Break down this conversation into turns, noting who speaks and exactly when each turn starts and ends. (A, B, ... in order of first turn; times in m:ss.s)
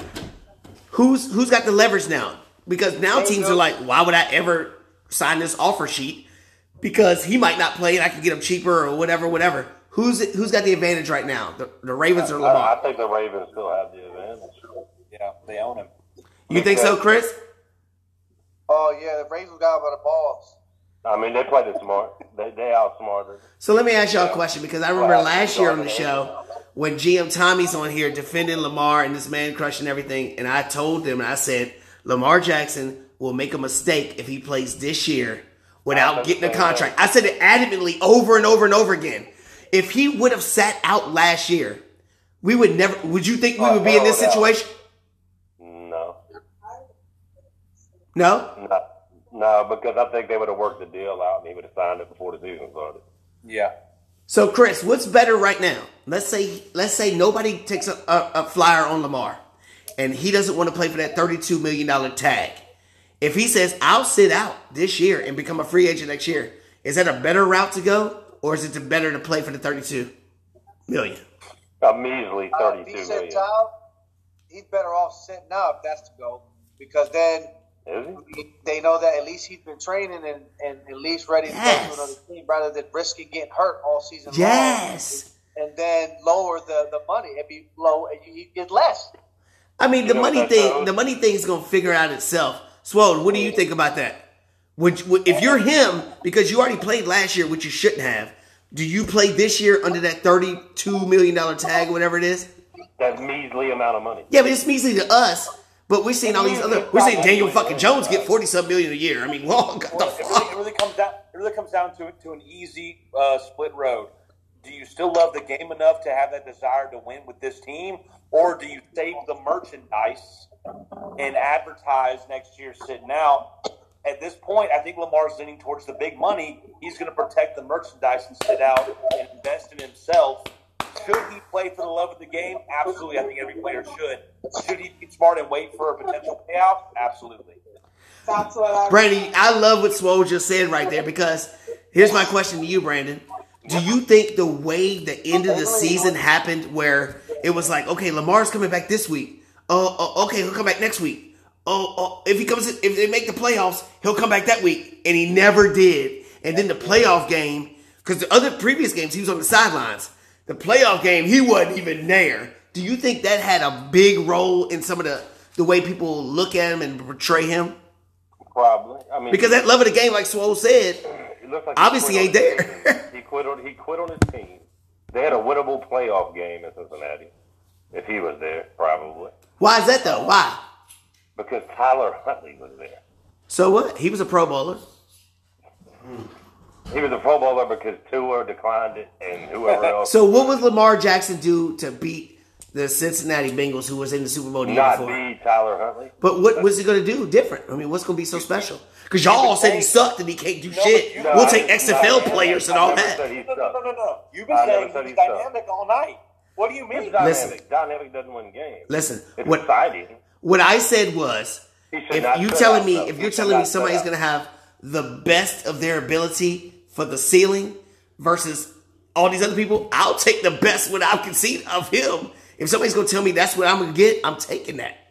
0:00.9-0:06.2 A
0:03.1-0:03.6 B
0:06.8-0:12.8 A
0:12.2-0:14.6 C
0:15.1-0:15.9 B
0:16.5-0:17.0 C
0:16.5-0:17.4 A
0:18.7-0:20.6 D
0:21.0-0:23.4 C
0:23.6-0:41.8 A
0:24.9-0:26.3 C
0:35.9-0:37.0 C
0:42.4-0:44.7 A
0:43.6-0:44.6 C
0:45.6-0:46.2 C
0:48.1-0:48.5 A
0:48.6-0:53.0 C
0:53.4-0:53.7 B
0:54.3-0:59.4 A
1:00.0-1:02.6 A
1:03.2-1:10.1 A
1:10.9-1:11.2 A
1:11.8-1:13.4 C
1:12.5-1:13.7 D
1:14.5-1:17.5 D
1:17.8-1:18.2 C
1:18.2-1:29.1 D
1:21.4-1:22.1 A
1:24.3-1:25.3 A
1:29.8-1:34.2 A
1:30.0-1:30.9 C
1:34.8-1:42.5 A
1:43.0-1:44.3 C
1:44.3-1:50.5 A
1:46.2-1:48.3 C
1:49.9-1:54.1 B
1:54.6-2:00.5 B
2:01.2-2:03.5 B
2:04.0-2:17.6 B
2:18.3-2:19.0 D
2:18.9-2:47.8 A
2:25.4-2:26.1 D
2:36.5-2:37.0 B
2:48.5-2:49.6 C
2:49.3-2:51.0 A
2:51.1-2:57.3 C
2:51.8-2:53.0 A
2:57.9-2:59.3 C
2:59.6-3:00.6 A
3:00.0-3:00.3 C
3:01.4-3:03.0 C
3:03.5-3:04.8 A
3:06.9-3:10.4 C
3:10.0-3:15.2 A
3:14.6-3:16.7 C
3:16.2-3:23.2 A
3:18.3-3:18.7 B
3:19.2-3:20.0 B
3:20.7-3:27.2 B
3:21.2-3:23.8 C
3:24.5-3:25.4 C
3:26.9-3:30.2 C
3:27.2-3:27.5 A
3:28.9-3:29.6 A
3:30.4-3:45.0 A
3:31.9-3:34.0 C